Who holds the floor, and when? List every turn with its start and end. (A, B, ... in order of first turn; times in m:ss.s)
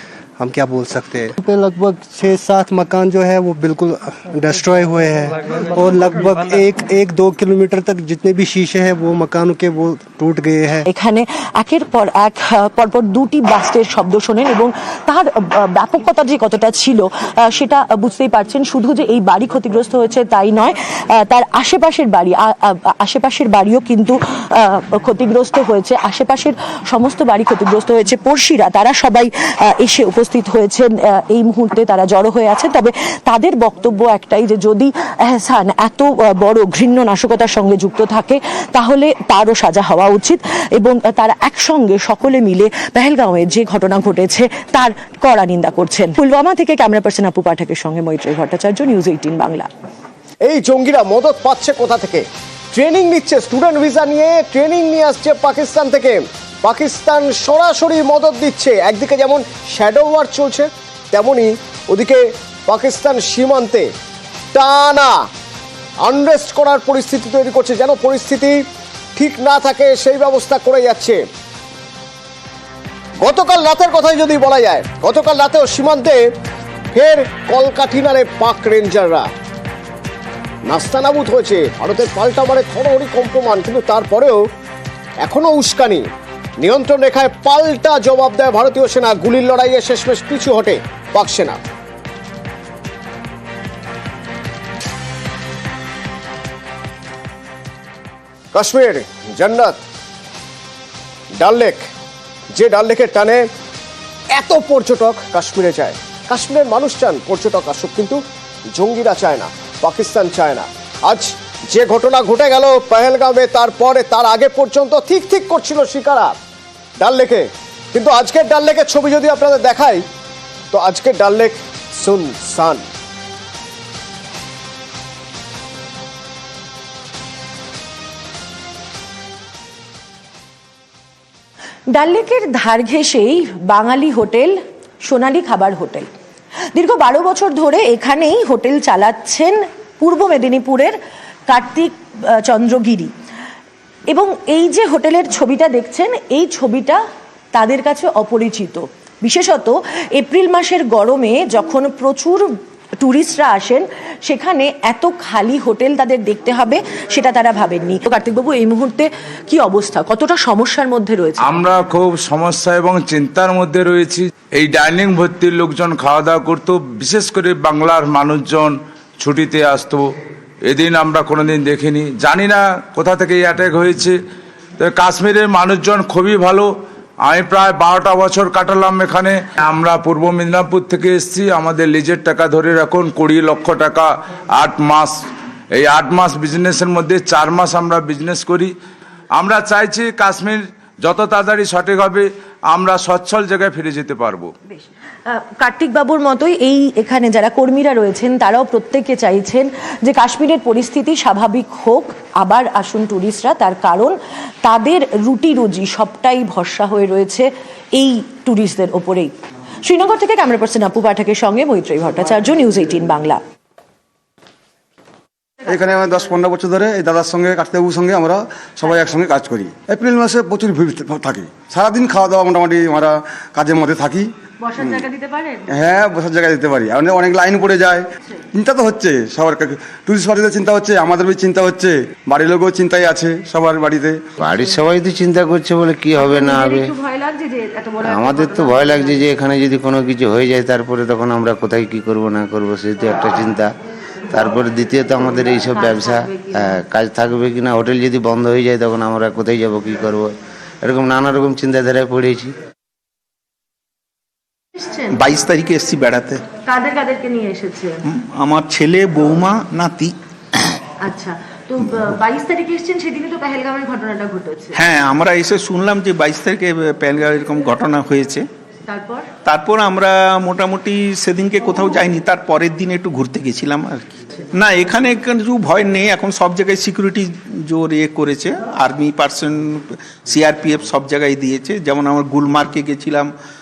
0:00.4-0:10.9 A
0:10.9-0:49.7 B
0:50.4-1:03.9 C
1:04.5-1:05.2 C
1:06.0-1:08.6 C
1:09.2-1:11.2 C
1:13.2-1:16.2 C
1:16.9-1:19.3 C
1:20.6-1:24.4 C
1:25.2-1:26.1 C
1:26.6-1:31.6 C
1:38.5-1:39.8 C
1:41.4-1:41.8 C
1:42.5-1:43.5 C
1:44.3-1:48.2 C
1:48.7-1:56.4 C
1:57.0-2:00.0 C
2:00.7-2:02.8 C
2:11.9-2:16.1 B
2:16.7-2:23.1 B
2:24.1-2:27.0 B
2:27.5-2:41.5 B
2:41.4-2:50.1 D
2:50.7-2:54.2 D
2:54.8-2:56.7 D
2:57.2-3:05.2 D
3:05.7-3:08.7 D
3:09.3-3:14.5 D
3:14.7-3:33.4 B
3:35.8-3:44.2 E
3:44.6-3:45.7 B
3:46.1-3:48.0 E
3:48.6-3:54.1 E
3:54.4-3:56.9 F
3:56.2-3:59.3 B
3:58.0-4:03.7 F
4:04.3-4:12.5 F
4:05.7-4:06.8 B
4:15.1-4:16.4 G
4:16.6-4:18.0 B
4:18.1-4:20.1 G
4:21.0-4:24.8 B
4:24.7-4:28.5 G
4:28.9-4:29.3 B
4:29.4-4:43.3 G